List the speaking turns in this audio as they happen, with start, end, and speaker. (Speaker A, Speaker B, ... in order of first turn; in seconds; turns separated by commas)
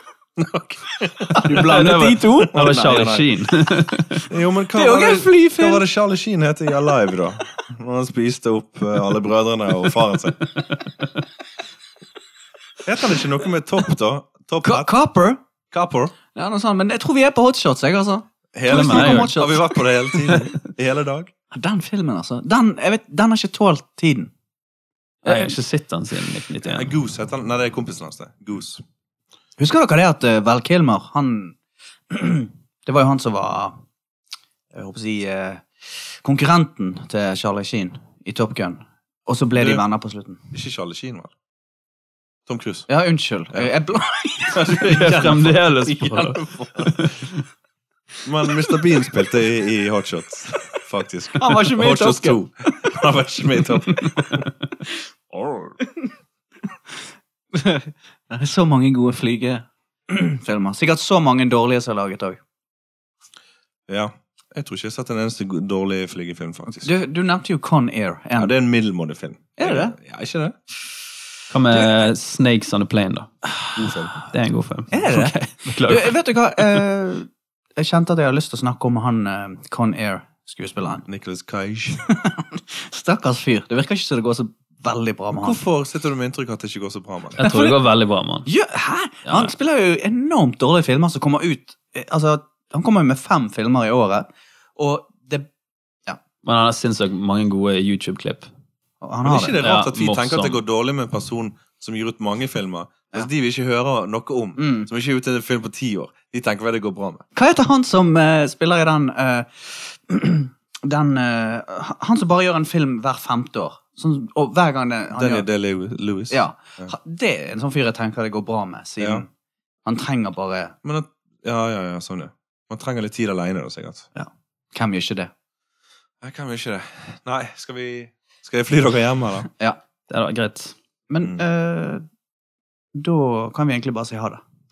Speaker A: 0.4-3.3, Speaker B: 1.3-3.2, Speaker C: 1.5-4.3, Speaker A: 4.3-10.4, Speaker B: 4.8-5.9, Speaker A: 12.8-14.9, Speaker B: 14.6-15.4, Speaker A: 15.7-16.1, Speaker B: 16.4-20.2, Speaker A: 18.6-21.3, Speaker C: 18.7-19.5, Speaker B: 21.5-24.3, Speaker B: 25.2-25.6, Speaker C: 25.2-26.9, Speaker A: 26.6-28.8, Speaker B: 29.6-31.6, Speaker B: 32.1-33.7, Speaker B: 34.7-40.4, Speaker A: 39.6-39.8, Speaker A: 40.5-41.3, Speaker A: 42.5-42.9, Speaker B: 42.9-45.4, Speaker A: 43.5-47.0, Speaker C: 44.9-47.4, Speaker B: 45.9-46.5, Speaker A: 48.2-54.5, Speaker B: 51.4-52.4, Speaker B: 53.9-54.4, Speaker C: 55.3-55.7, Speaker B: 57.5-62.4, Speaker A: 63.9-66.9, Speaker B: 66.8-68.5, Speaker A: 68.4-70.6, Speaker B: 69.6-70.0, Speaker C: 71.5-73.3, Speaker B: 71.7-72.0, Speaker A: 73.8-74.1, Speaker C: 74.2-76.2, Speaker B: 74.9-81.0, Speaker A: 81.1-82.0, Speaker B: 82.1-85.6, Speaker A: 85.3-87.4, Speaker B: 87.4-87.8, Speaker C: 87.4-88.5, Speaker B: 88.5-95.5, Speaker C: 96.4-98.5, Speaker B: 99.0-99.6, Speaker A: 99.2-107.2, Speaker C: 99.6-100.6, Speaker B: 104.6-104.9, Speaker B: 107.3-115.5, Speaker A: 115.2-116.9, Speaker B: 116.3-119.3, Speaker B: 119.8-120.8, Speaker A: 120.8-124.1, Speaker B: 124.2-125.3, Speaker A: 126.2-129.5, Speaker C: 130.1-130.8, Speaker B: 131.1-132.0, Speaker B: 132.9-134.4